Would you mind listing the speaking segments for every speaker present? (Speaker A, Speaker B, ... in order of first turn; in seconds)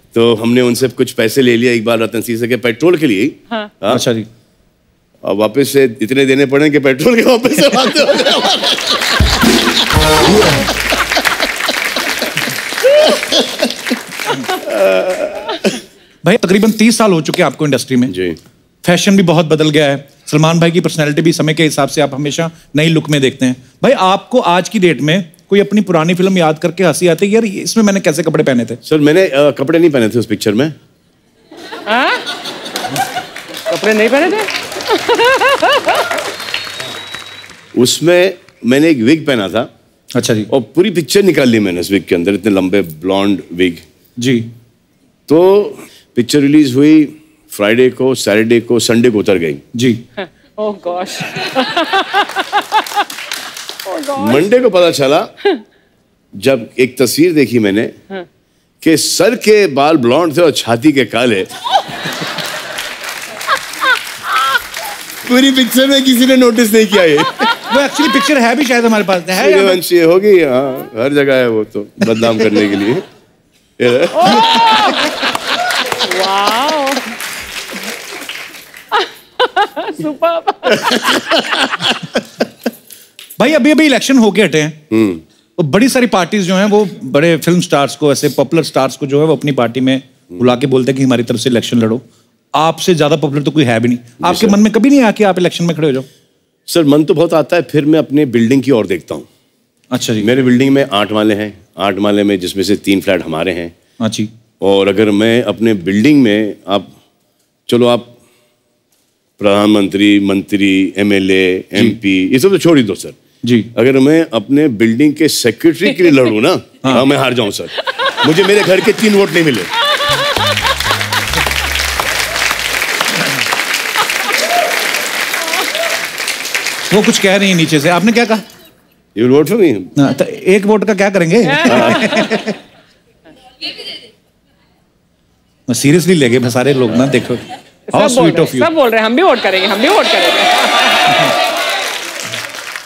Speaker A: 0.1-4.0, 5.2-9.3, 13.1-13.4, 14.4-15.7, 18.1-18.4, 28.8-30.7, 37.7-39.7, 40.5-43.8, 45.3-49.6, 54.1-55.3, 56.4-57.9, 58.8-61.5, 65.2-67.5, 69.4-73.0, 73.8-74.7, 80.8-81.4, 84.9-85.2, 94.2-94.6, 96.7-99.3, 100.2-103.7, 104.6-106.9, 107.7-108.1, 109.4-113.2, 113.7-119.7, 129.1-129.9, 131.6-132.2
Speaker B: 3.9-4.3, 16.2-18.1, 18.8-28.8, 40.1-40.5, 44.2-44.5, 49.7-50.0, 67.7-69.8, 83.4-84.8, 85.6-92.0, 92.5-96.0, 99.9-100.3, 104.0-104.3, 113.4-113.7, 126.9-128.4, 130.0-132.5, 135.7-138.7
Speaker C: 31.9-32.2, 33.7-36.0, 50.6-52.8, 53.8-54.4, 74.2-75.2, 75.9-77.1, 78.9-81.4, 137.9-141.2